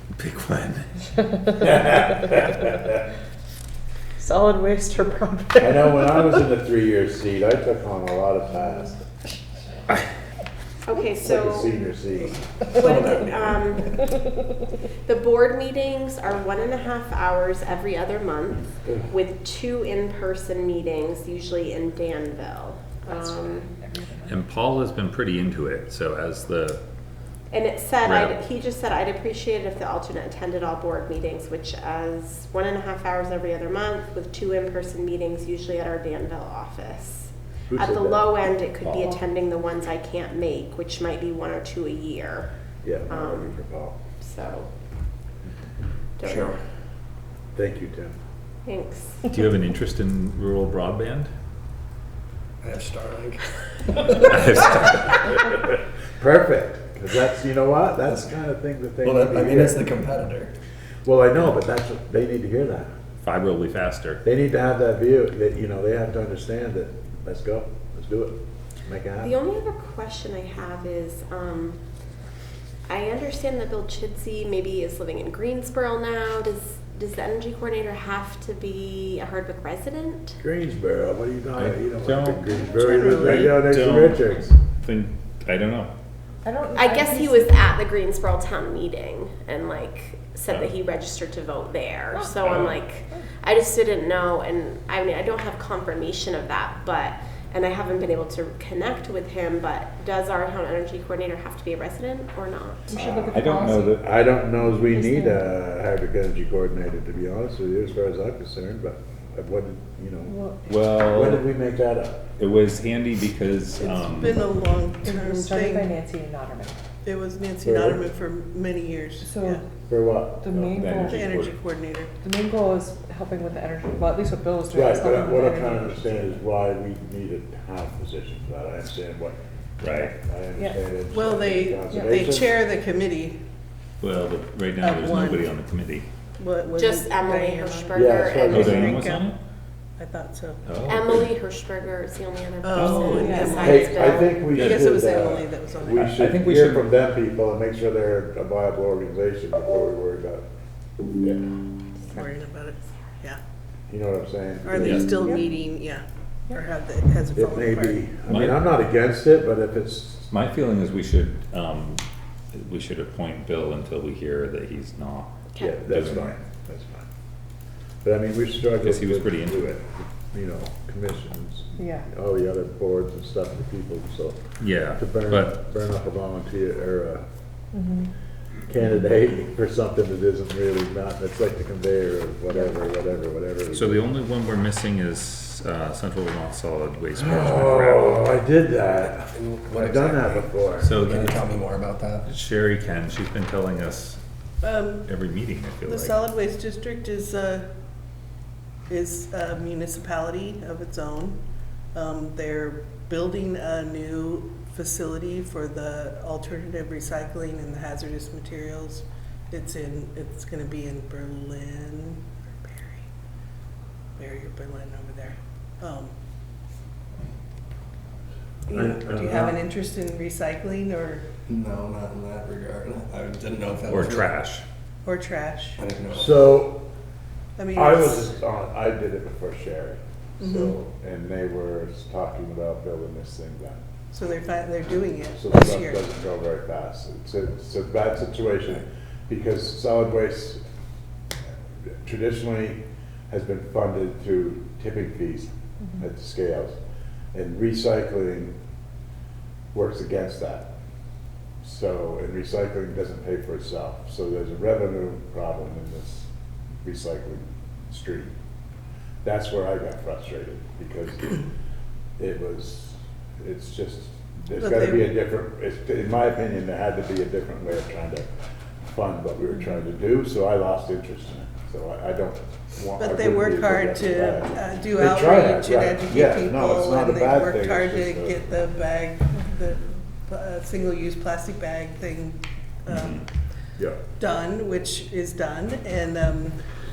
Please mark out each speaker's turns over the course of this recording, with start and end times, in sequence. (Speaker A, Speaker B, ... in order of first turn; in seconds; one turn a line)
Speaker A: 0.2-0.9
Speaker B: 1.3-1.9
Speaker C: 1.6-3.0
Speaker B: 4.2-6.3
Speaker C: 5.6-9.0
Speaker D: 10.9-11.7
Speaker C: 11.2-12.5
Speaker D: 12.7-14.1
Speaker E: 12.8-13.6
Speaker D: 15.1-23.7
Speaker B: 23.1-24.4
Speaker A: 24.3-26.8
Speaker D: 27.5-42.5
Speaker A: 28.0-28.4
Speaker C: 37.7-38.3
Speaker C: 42.8-44.0
Speaker D: 43.1-43.6
Speaker D: 44.2-44.7
Speaker D: 46.2-46.6
Speaker C: 47.5-48.2
Speaker D: 48.6-49.3
Speaker A: 49.3-51.3
Speaker E: 52.6-54.4
Speaker A: 54.1-55.2
Speaker C: 56.2-60.0
Speaker E: 59.0-60.5
Speaker C: 61.0-62.9
Speaker A: 63.2-64.2
Speaker C: 64.2-69.3
Speaker D: 69.2-71.8
Speaker D: 72.9-80.4
Speaker C: 80.4-84.5
Speaker A: 81.6-82.6
Speaker B: 82.5-83.4
Speaker F: 82.8-83.5
Speaker A: 83.1-85.9
Speaker B: 86.5-87.6
Speaker D: 86.8-103.0
Speaker B: 92.1-92.5
Speaker A: 92.4-92.8
Speaker B: 102.9-104.0
Speaker C: 102.9-110.4
Speaker A: 103.3-104.0
Speaker B: 104.7-105.4
Speaker B: 110.3-110.7
Speaker A: 110.7-111.5
Speaker C: 111.1-112.3
Speaker A: 112.4-114.6
Speaker F: 113.8-116.0
Speaker B: 115.0-116.8
Speaker F: 117.0-119.6
Speaker C: 117.6-118.0
Speaker B: 119.2-119.6
Speaker C: 119.9-120.4
Speaker B: 120.4-121.2
Speaker A: 120.5-121.7
Speaker F: 121.0-122.1
Speaker B: 122.2-126.4
Speaker C: 124.7-132.5
Speaker A: 129.8-130.1
Speaker F: 131.1-133.4
Speaker B: 131.9-132.2
Speaker A: 134.0-136.1
Speaker F: 134.8-135.6
Speaker F: 136.4-139.3
Speaker D: 136.8-138.8
Speaker C: 137.9-139.1
Speaker A: 138.5-139.4
Speaker F: 140.0-140.6
Speaker A: 140.7-141.3
Speaker D: 140.8-144.3
Speaker F: 142.6-146.3
Speaker A: 142.7-143.7
Speaker B: 143.1-143.7
Speaker C: 143.6-150.4
Speaker A: 144.6-144.9
Speaker A: 146.0-146.9
Speaker C: 151.1-151.6
Speaker F: 152.1-153.4
Speaker C: 153.9-155.4
Speaker F: 154.6-158.0
Speaker A: 154.8-155.2
Speaker C: 157.3-160.3
Speaker A: 158.3-158.7
Speaker A: 160.3-162.0
Speaker A: 162.5-166.3
Speaker C: 165.6-167.1
Speaker C: 168.0-174.4
Speaker A: 168.8-169.7
Speaker B: 171.8-172.1
Speaker A: 174.6-175.6
Speaker C: 175.0-177.2
Speaker B: 177.7-178.1
Speaker C: 178.7-184.0
Speaker A: 183.7-188.2
Speaker C: 187.1-191.0
Speaker E: 189.3-192.3
Speaker A: 190.8-191.5
Speaker A: 192.3-194.2
Speaker F: 194.6-195.1
Speaker A: 195.0-196.2
Speaker F: 195.8-197.7
Speaker F: 198.9-201.4
Speaker F: 201.9-213.1
Speaker F: 214.2-216.1
Speaker F: 218.7-221.3
Speaker C: 218.7-219.6
Speaker E: 221.5-224.4
Speaker A: 223.9-224.7
Speaker F: 225.0-225.8
Speaker E: 225.8-226.6
Speaker C: 226.1-226.9
Speaker F: 227.6-228.3
Speaker C: 227.7-233.8
Speaker F: 230.4-230.7
Speaker F: 234.1-236.0
Speaker C: 235.3-240.6
Speaker C: 242.0-246.8
Speaker C: 247.3-248.5
Speaker C: 249.7-250.7
Speaker C: 251.6-256.3
Speaker C: 256.8-258.3
Speaker C: 259.2-261.4
Speaker C: 262.2-268.3
Speaker F: 264.6-265.2
Speaker C: 268.9-278.5
Speaker F: 273.0-283.3
Speaker A: 282.9-283.2
Speaker F: 284.2-286.6